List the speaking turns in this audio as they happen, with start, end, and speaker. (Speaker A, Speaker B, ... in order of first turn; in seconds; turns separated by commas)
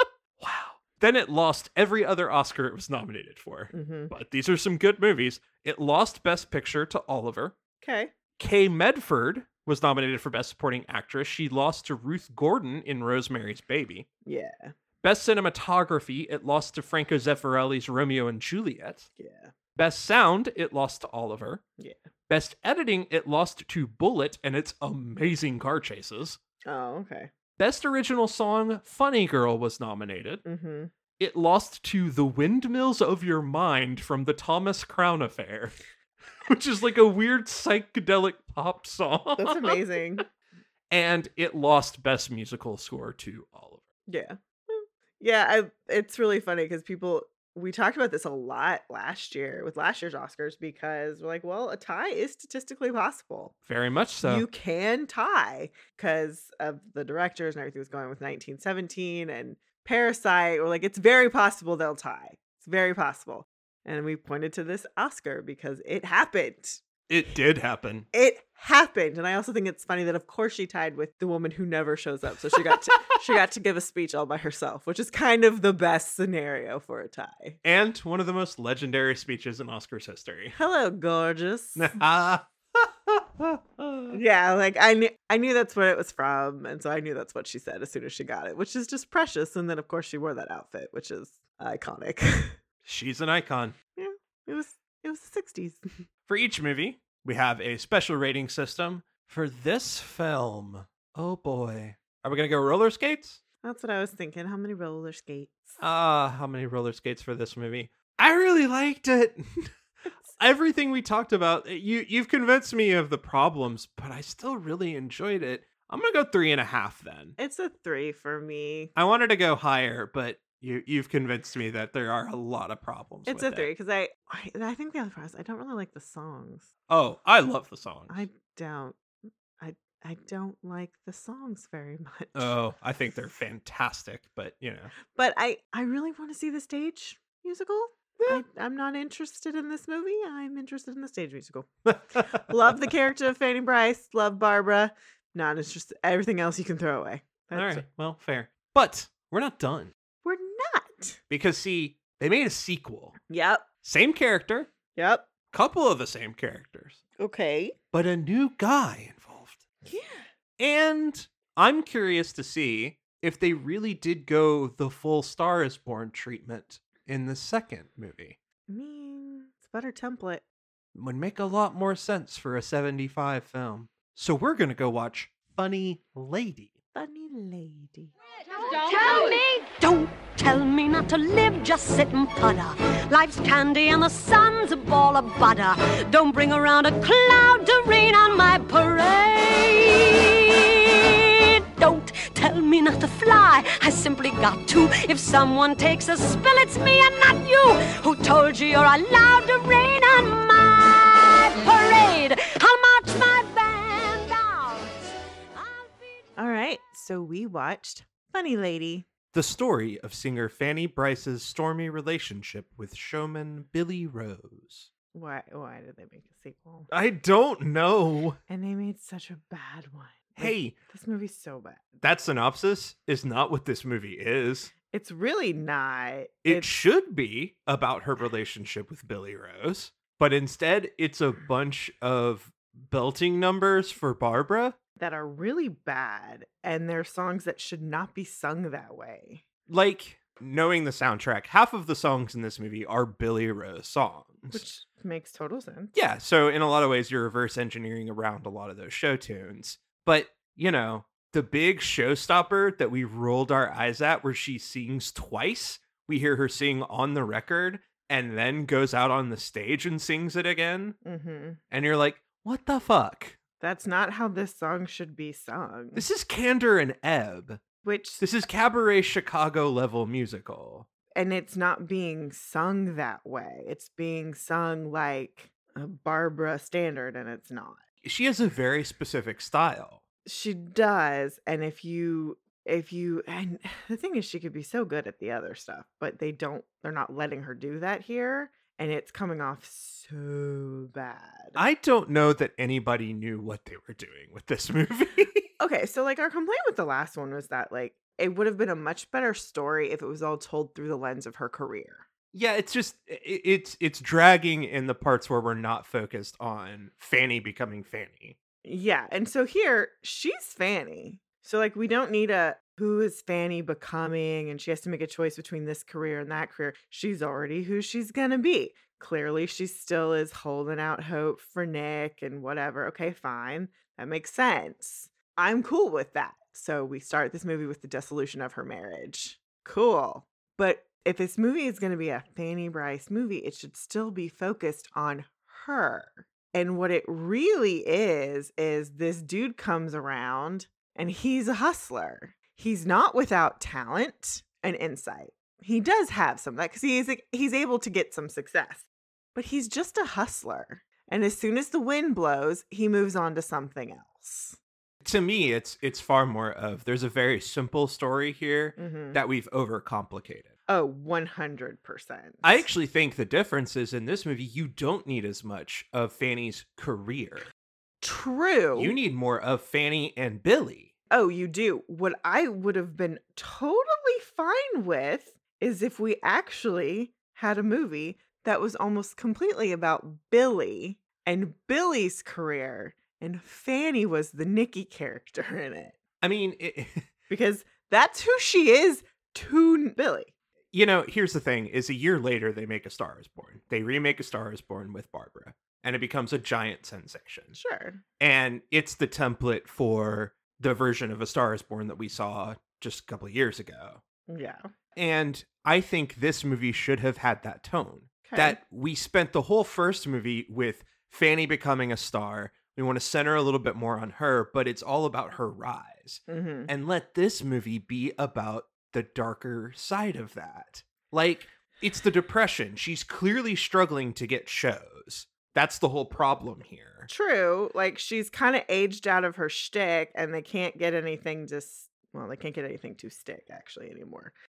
Speaker A: 0.4-7.5, Speaker B: 3.7-4.1, Speaker B: 7.8-8.1, Speaker A: 8.4-14.1, Speaker B: 14.3-14.7, Speaker A: 15.0-19.1, Speaker B: 19.2-19.5, Speaker A: 19.8-21.6, Speaker A: 22.3-26.4, Speaker B: 26.7-27.3, Speaker A: 27.6-30.4, Speaker B: 30.4-30.9, Speaker A: 31.2-35.8, Speaker A: 36.5-39.8, Speaker B: 39.4-40.3, Speaker A: 40.9-43.9, Speaker B: 44.1-53.5, Speaker A: 53.7-54.5, Speaker B: 54.2-66.8, Speaker A: 67.1-68.1, Speaker B: 68.1-77.6, Speaker A: 72.3-73.4, Speaker A: 77.6-80.6, Speaker B: 80.6-82.0, Speaker A: 81.8-84.2, Speaker B: 84.1-92.6, Speaker A: 92.8-93.8, Speaker B: 94.0-96.0, Speaker A: 96.3-103.4, Speaker B: 103.6-105.8, Speaker A: 105.8-109.7, Speaker A: 110.4-117.4, Speaker B: 117.4-118.9, Speaker A: 119.0-123.7, Speaker B: 123.3-126.7, Speaker A: 126.9-128.2, Speaker B: 128.1-129.0, Speaker B: 129.6-132.6, Speaker A: 132.3-134.9, Speaker B: 135.1-147.8, Speaker A: 141.9-142.4, Speaker A: 147.5-149.9, Speaker B: 150.2-151.2, Speaker A: 151.3-153.2, Speaker B: 153.3-153.7, Speaker A: 153.8-154.7, Speaker B: 154.9-155.3, Speaker A: 155.5-157.0, Speaker B: 157.2-157.8, Speaker A: 157.9-159.6, Speaker B: 159.8-160.3, Speaker A: 160.6-168.4, Speaker B: 168.7-170.4, Speaker A: 170.9-176.7, Speaker B: 176.9-178.1, Speaker C: 178.7-206.3, Speaker B: 206.4-209.1, Speaker A: 209.3-214.9, Speaker B: 215.1-216.9, Speaker A: 216.9-218.4, Speaker B: 218.5-221.9, Speaker A: 220.4-220.8, Speaker A: 222.0-224.7, Speaker B: 224.9-226.7, Speaker A: 226.4-234.8, Speaker B: 235.0-239.4, Speaker A: 239.7-244.6, Speaker B: 244.5-245.9, Speaker A: 245.9-261.0, Speaker B: 261.1-261.6, Speaker A: 261.7-263.4, Speaker B: 263.6-266.1, Speaker A: 265.9-267.6, Speaker B: 267.8-268.2, Speaker A: 268.2-270.9, Speaker B: 271.1-277.8, Speaker A: 278.0-280.0, Speaker B: 280.3-291.6, Speaker A: 291.6-295.5, Speaker B: 295.6-302.1, Speaker A: 302.3-308.4, Speaker B: 308.6-354.6, Speaker A: 355.0-360.5, Speaker B: 358.8-359.2, Speaker B: 360.7-362.7, Speaker A: 362.4-367.5, Speaker B: 368.0-368.9, Speaker A: 368.8-370.9, Speaker B: 371.1-386.0, Speaker A: 386.2-387.1, Speaker B: 387.3-390.3, Speaker A: 390.7-397.6, Speaker B: 397.5-398.0, Speaker A: 398.2-404.0, Speaker B: 404.3-404.7, Speaker A: 405.0-427.1, Speaker B: 408.2-408.6, Speaker B: 416.3-416.7, Speaker B: 427.1-434.3